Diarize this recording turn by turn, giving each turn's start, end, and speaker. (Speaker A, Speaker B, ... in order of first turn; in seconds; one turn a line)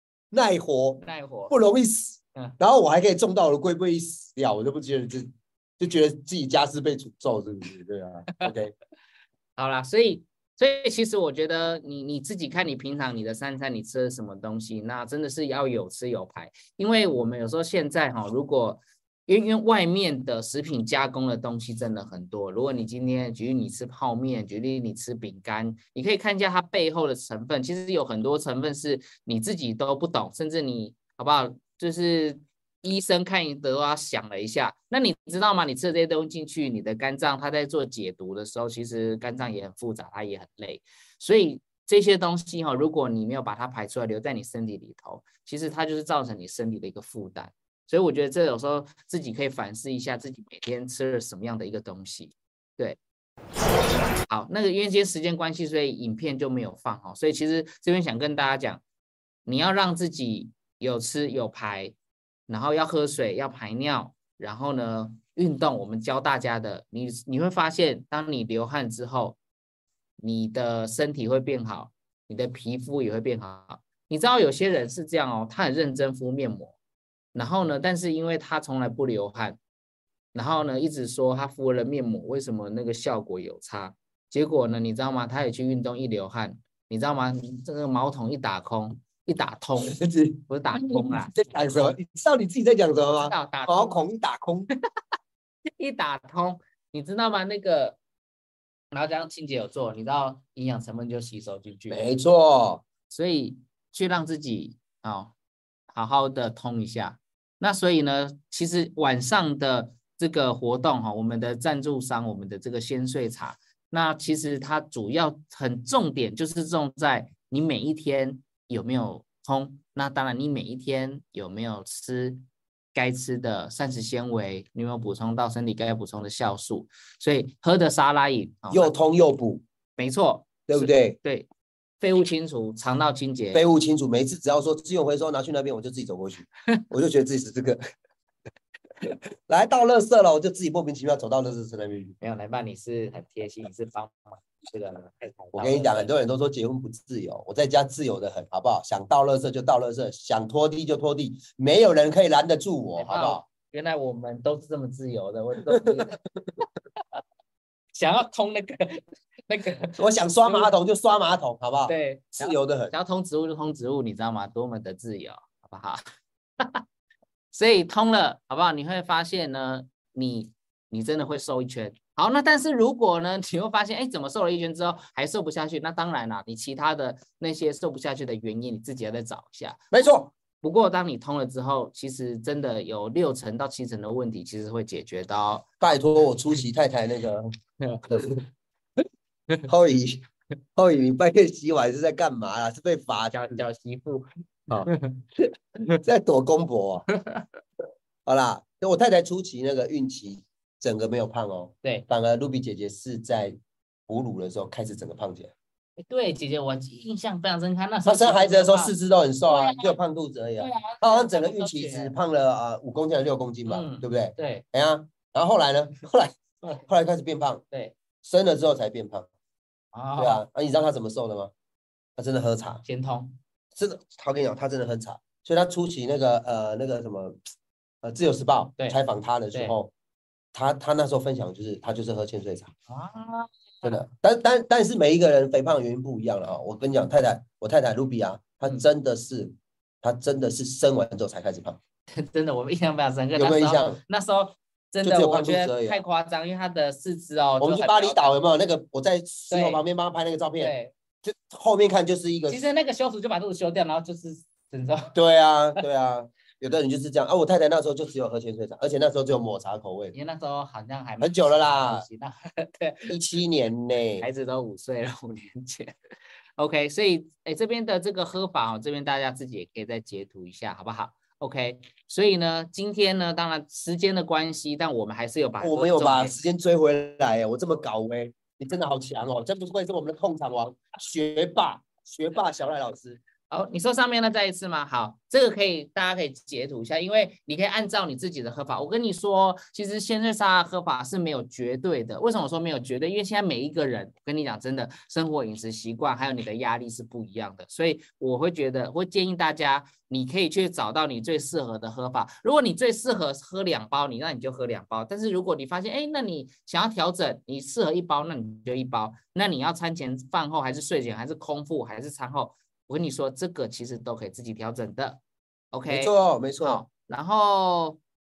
Speaker A: 0.3-8.7
Speaker B: 1.0-1.6
Speaker B: 9.6-53.0
Speaker B: 54.2-58.8
Speaker B: 59.5-62.0
Speaker B: 62.5-69.4
Speaker B: 70.2-76.8
Speaker B: 77.3-79.6
Speaker B: 80.3-90.0
Speaker A: 89.8-94.7
Speaker B: 90.5-92.0
Speaker B: 93.1-94.1
Speaker B: 95.8-98.0
Speaker B: 98.9-102.0
Speaker A: 101.9-102.8
Speaker B: 103.1-105.3
Speaker B: 105.9-122.4
Speaker B: 123.0-128.9
Speaker A: 128.7-129.6
Speaker B: 130.0-131.5
Speaker A: 130.7-131.2
Speaker B: 132.0-133.6
Speaker A: 133.5-137.8
Speaker A: 139.5-142.2
Speaker B: 142.2-146.1
Speaker A: 145.5-153.4
Speaker B: 153.0-156.2
Speaker A: 155.7-156.1
Speaker B: 158.0-160.7
Speaker A: 160.0-162.9
Speaker B: 161.9-166.0
Speaker B: 167.5-179.8
Speaker A: 179.9-180.3
Speaker B: 180.6-185.9
Speaker A: 185.8-187.5
Speaker B: 187.8-188.4
Speaker A: 188.1-188.4
Speaker A: 189.7-193.6
Speaker B: 193.3-194.3
Speaker B: 194.8-195.3
Speaker A: 196.0-197.1
Speaker B: 197.1-197.5
Speaker A: 198.3-205.5
Speaker B: 206.0-208.9
Speaker A: 208.1-217.6
Speaker B: 209.5-210.0
Speaker B: 210.6-212.1
Speaker B: 213.7-214.7
Speaker A: 218.2-219.3
Speaker B: 219.9-220.4
Speaker A: 220.2-221.5
Speaker A: 222.2-222.8
Speaker B: 222.8-223.4
Speaker A: 223.8-227.4
Speaker A: 228.0-229.9
Speaker A: 230.5-232.7
Speaker B: 232.9-234.1
Speaker A: 233.8-241.8
Speaker B: 242.1-248.3
Speaker A: 243.4-244.0
Speaker A: 245.0-246.0
Speaker A: 247.6-252.6
Speaker B: 249.5-249.8
Speaker B: 250.6-250.9
Speaker B: 252.5-255.2
Speaker A: 255.1-260.1
Speaker B: 260.1-263.1
Speaker A: 261.2-262.1
Speaker A: 263.1-264.3
Speaker B: 264.2-266.0
Speaker B: 266.6-276.4
Speaker A: 275.6-283.2
Speaker B: 283.5-315.2
Speaker B: 315.7-318.0
Speaker A: 315.9-316.8